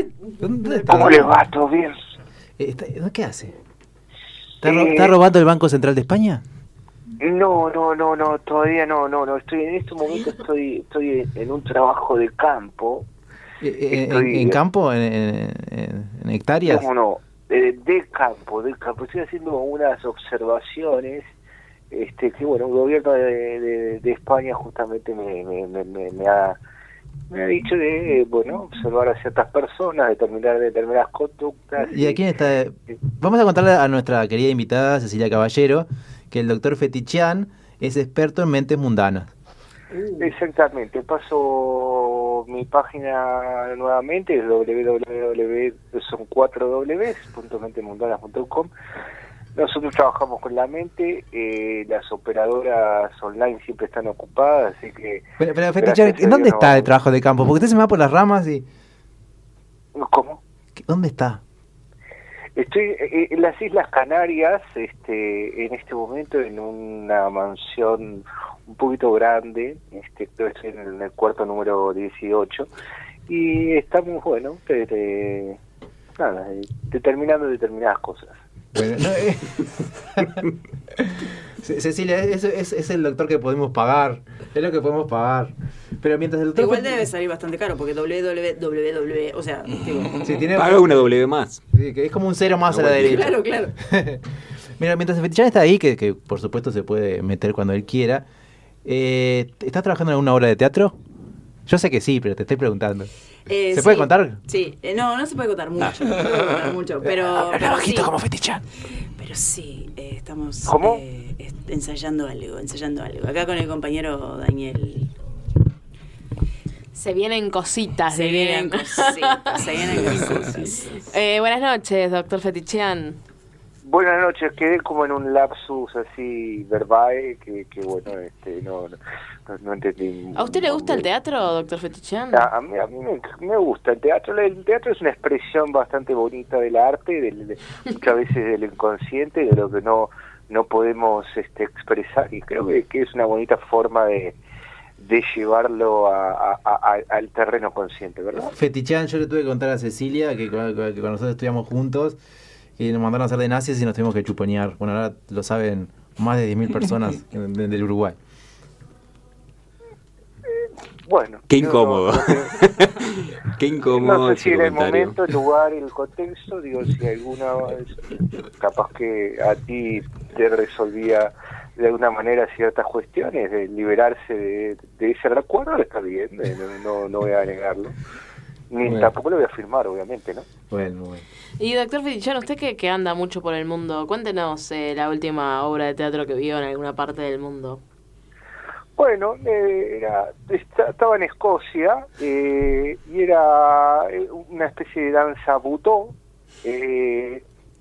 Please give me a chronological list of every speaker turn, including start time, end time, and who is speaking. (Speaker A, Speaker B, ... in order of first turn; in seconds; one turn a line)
Speaker A: 0.4-1.3
Speaker B: 0.9-2.0
Speaker A: 2.6-3.5
Speaker A: 4.6-6.4
Speaker B: 4.6-5.2
Speaker B: 7.2-13.1
Speaker A: 13.6-16.9
Speaker B: 13.9-14.6
Speaker B: 16.6-21.3
Speaker B: 21.9-26.6
Speaker B: 27.3-32.2
Speaker A: 31.8-39.3
Speaker B: 40.2-48.7
Speaker B: 49.5-55.2
Speaker A: 55.4-58.6
Speaker B: 55.8-56.9
Speaker B: 60.0-60.4
Speaker A: 60.8-61.4
Speaker B: 62.5-72.7
Speaker B: 73.3-75.6
Speaker B: 76.2-78.3
Speaker A: 78.8-80.5
Speaker A: 81.0-87.1
Speaker C: 86.5-90.2
Speaker A: 90.2-91.1
Speaker D: 90.5-91.6
Speaker A: 91.7-94.2
Speaker C: 92.8-93.7
Speaker D: 92.9-93.2
Speaker A: 94.8-98.2
Speaker A: 98.8-101.0
Speaker A: 101.7-103.1
Speaker C: 103.5-108.2
Speaker A: 103.7-104.4
Speaker A: 107.0-108.6
Speaker C: 109.2-115.1
Speaker B: 110.7-111.0
Speaker E: 116.9-120.2
Speaker C: 118.1-121.1
Speaker E: 120.9-123.2
Speaker B: 123.8-129.0
Speaker B: 129.5-131.1
Speaker E: 130.4-132.5
Speaker B: 132.3-144.4
Speaker B: 145.0-148.5
Speaker A: 148.4-152.2
Speaker A: 152.8-158.2
Speaker B: 161.1-162.9
Speaker D: 161.5-165.3
Speaker B: 163.9-178.0
Speaker B: 178.7-180.5
Speaker A: 178.8-179.1
Speaker A: 180.7-181.2
Speaker E: 181.6-187.8
Speaker B: 189.0-197.4